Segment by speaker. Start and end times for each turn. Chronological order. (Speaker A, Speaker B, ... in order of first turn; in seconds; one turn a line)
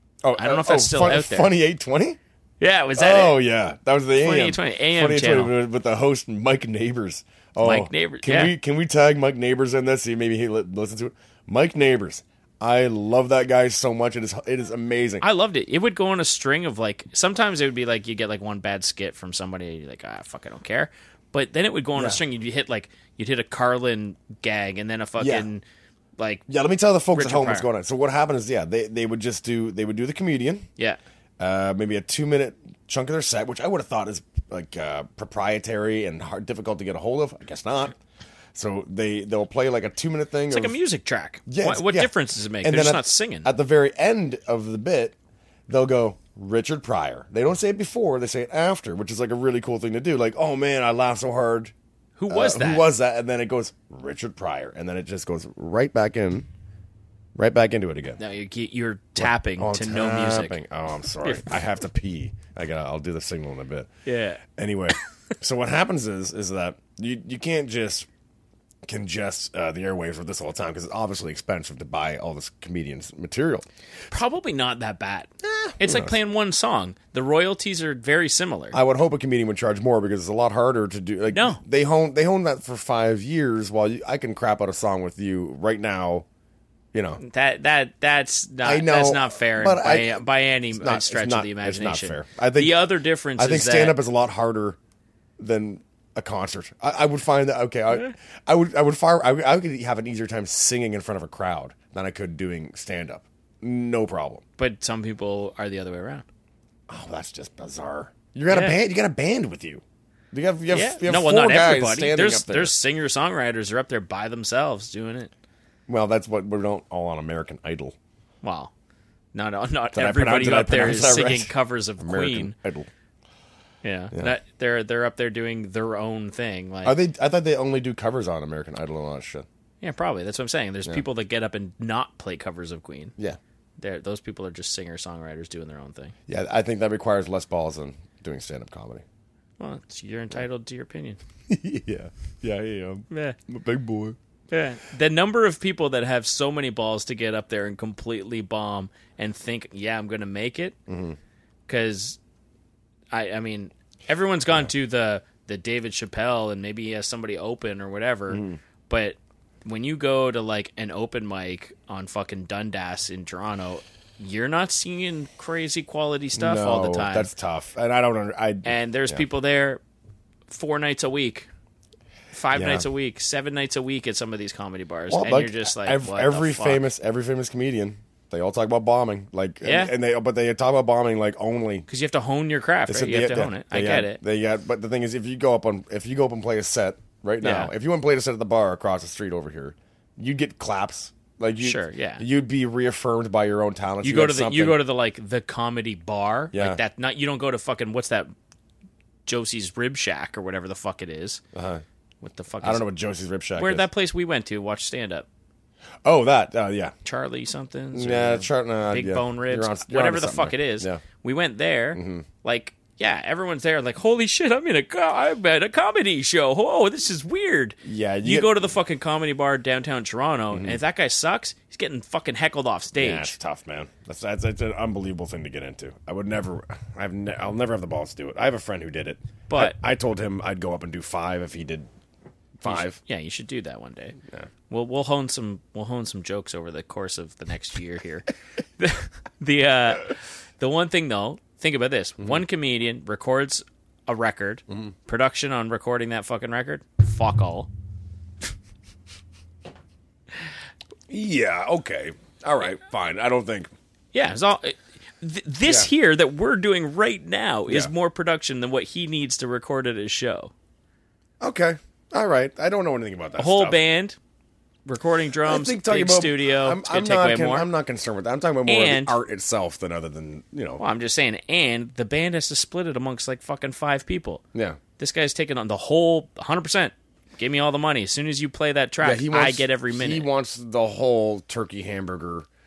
Speaker A: 0.2-2.2
Speaker B: 0.3-1.5
Speaker B: 2.6-3.4
Speaker A: 3.0-15.2
Speaker B: 4.1-5.5
Speaker B: 7.6-8.5
Speaker B: 15.2-25.6
Speaker A: 21.9-22.2
Speaker A: 25.2-25.5
Speaker B: 26.2-26.4
Speaker A: 26.5-30.7
Speaker B: 27.1-27.7
Speaker A: 31.4-38.0
Speaker A: 38.5-40.8
Speaker B: 40.5-43.5
Speaker A: 41.5-45.1
Speaker A: 45.7-51.7
Speaker B: 52.2-52.9
Speaker A: 52.3-56.5
Speaker A: 57.4-58.2
Speaker B: 58.2-60.6
Speaker A: 59.2-63.9
Speaker B: 61.2-61.5
Speaker B: 64.0-64.4
Speaker A: 64.4-68.1
Speaker A: 68.8-73.7
Speaker B: 74.1-78.8
Speaker A: 75.4-76.2
Speaker A: 78.7-86.2
Speaker B: 81.3-81.6
Speaker A: 86.9-87.2
Speaker B: 87.2-94.0
Speaker A: 88.6-90.2
Speaker A: 90.7-92.8
Speaker A: 93.4-94.8
Speaker A: 95.4-104.4
Speaker B: 104.6-106.2
Speaker A: 106.9-112.7
Speaker B: 108.5-108.8
Speaker B: 110.7-115.3
Speaker A: 115.9-118.0
Speaker B: 118.4-118.7
Speaker B: 119.3-122.5
Speaker A: 119.9-122.9
Speaker B: 123.8-127.0
Speaker A: 126.8-129.4
Speaker B: 129.8-133.1
Speaker B: 133.8-136.1
Speaker A: 136.3-139.0
Speaker B: 139.6-141.2
Speaker A: 141.5-144.2
Speaker B: 143.1-143.4
Speaker B: 144.5-150.8
Speaker A: 150.9-151.2
Speaker B: 151.7-152.2
Speaker B: 153.1-167.3
Speaker A: 158.3-158.6
Speaker A: 166.3-169.2
Speaker B: 168.6-169.8
Speaker B: 170.5-171.5
Speaker B: 172.3-176.8
Speaker A: 172.5-172.8
Speaker A: 175.1-181.8
Speaker B: 179.6-179.9
Speaker B: 181.9-184.2
Speaker A: 182.9-194.8
Speaker B: 187.4-187.7
Speaker B: 191.6-192.2
Speaker B: 194.0-198.3
Speaker A: 196.5-196.8
Speaker B: 199.2-201.4
Speaker A: 201.5-201.8
Speaker B: 202.2-202.8
Speaker A: 202.6-203.9
Speaker B: 203.6-205.2
Speaker A: 206.0-206.9
Speaker B: 207.0-223.3
Speaker A: 207.9-211.0
Speaker A: 211.9-212.3
Speaker A: 217.8-218.7
Speaker A: 220.5-220.8
Speaker A: 222.9-231.9
Speaker B: 229.5-229.8
Speaker A: 232.6-233.0
Speaker B: 232.6-234.2
Speaker B: 234.7-247.7
Speaker A: 251.1-253.7
Speaker B: 254.1-260.5
Speaker A: 255.6-255.9
Speaker A: 261.4-263.8
Speaker B: 263.4-264.2
Speaker B: 264.9-267.7
Speaker A: 265.4-270.8
Speaker B: 268.6-269.2
Speaker B: 270.8-274.4
Speaker A: 274.5-274.8
Speaker B: 275.0-280.3
Speaker A: 279.0-282.5